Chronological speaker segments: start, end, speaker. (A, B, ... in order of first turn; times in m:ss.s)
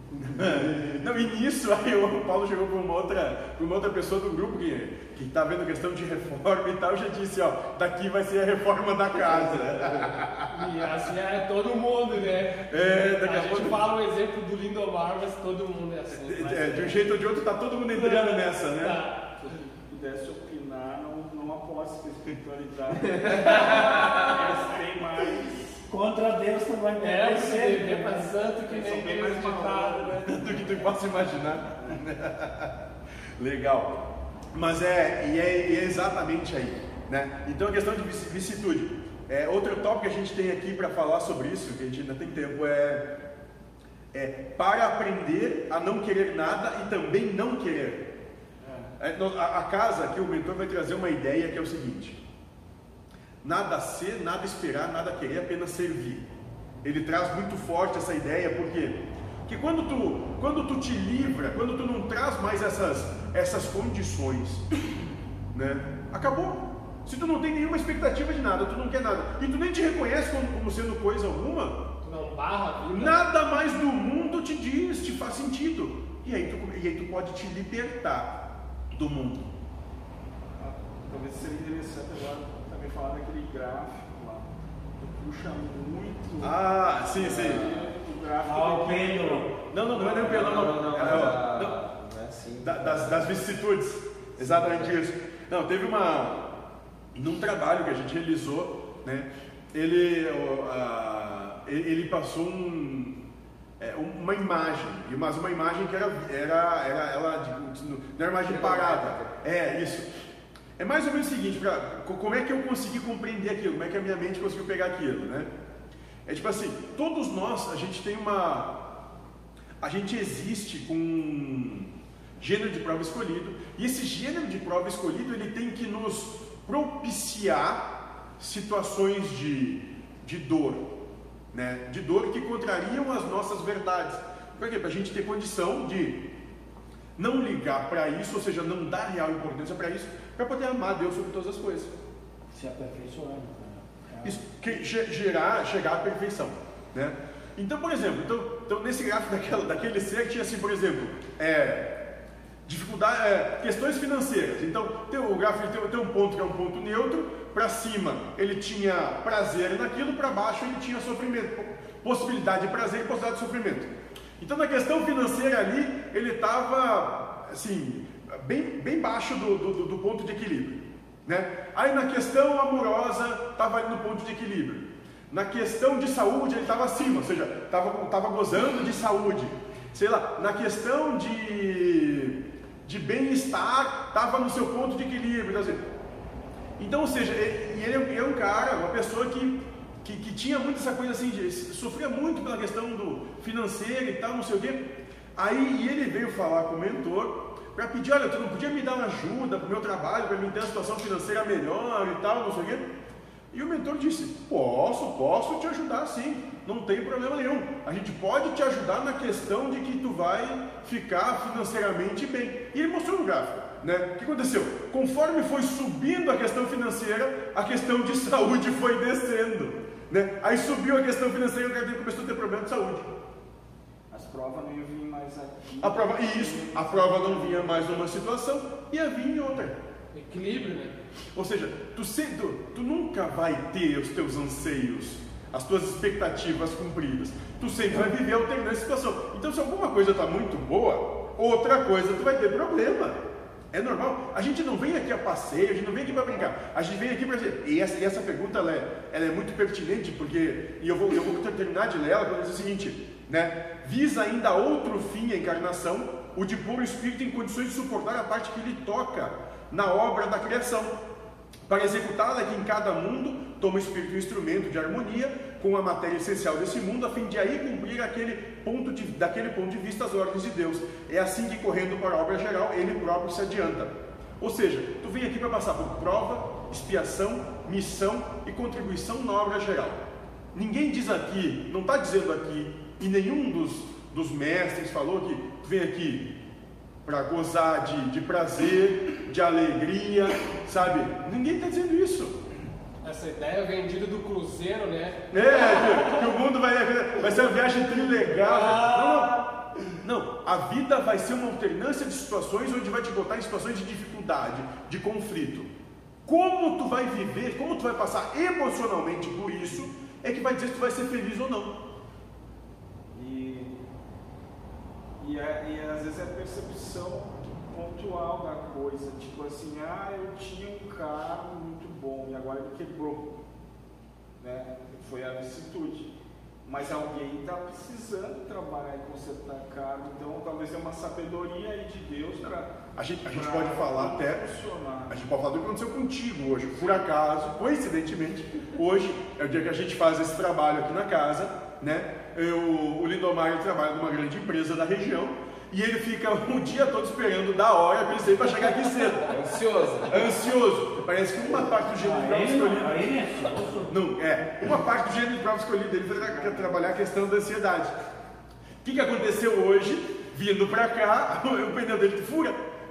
0:00.3-0:10.8 A
0:10.5-0:17.0 B
0:12.7-0:13.9 A
0:16.2-0:19.0 A
0:17.9-0:19.2 B
0:19.8-0:25.7 C
0:23.5-0:24.0 D
0:23.6-0:24.2 B
0:25.9-0:28.3 E
0:27.0-0:30.2 B
0:28.7-0:31.0 C
0:30.2-0:32.8 A
0:33.4-0:43.0 A
0:44.1-0:48.1 A
0:48.6-0:48.9 C
0:49.0-0:52.2 A
0:53.4-0:56.2 A
0:56.8-1:04.7 A
1:05.5-1:11.8 A
1:12.0-1:13.3 B
1:12.9-1:19.5 A
1:20.6-1:29.5 C
1:26.4-1:27.6 A
1:27.1-1:27.9 D
1:28.4-1:29.7 E
1:29.7-1:31.8 A
1:29.9-1:33.4 D
1:32.6-1:36.5 A
1:34.4-1:35.0 D
1:37.1-1:43.2 A
1:43.8-1:50.1 A
1:48.4-1:49.3 D
1:50.8-1:55.5 A
1:56.2-1:58.9 A
1:59.8-2:10.9 A
2:11.5-2:16.3 A
2:17.2-2:21.9 A
2:22.5-2:24.6 E
2:24.2-2:32.0 A
2:32.6-3:05.8 A
3:06.8-3:14.8 A
3:15.4-3:22.9 A
3:23.5-3:43.1 A
3:44.1-3:48.0 C
3:45.8-3:49.8 A
3:50.1-3:51.0 B
3:51.3-4:03.2 A
4:03.7-4:20.9 A
4:21.7-4:40.0 A
4:40.5-4:46.3 A
4:47.0-4:52.4 A
4:53.0-4:56.3 B
4:55.3-4:59.4 A
4:58.4-4:59.6 B
5:00.0-5:05.7 A
5:06.2-5:11.8 A
5:13.1-5:13.8 C
5:15.2-5:23.3 C
5:24.4-5:35.3 C
5:33.0-5:34.4 A
5:35.1-5:49.3 A
5:49.2-5:50.3 D
5:50.1-5:53.1 A
5:52.0-5:53.9 E
5:53.9-5:57.9 A
5:56.2-5:56.7 C
5:58.8-6:02.6 A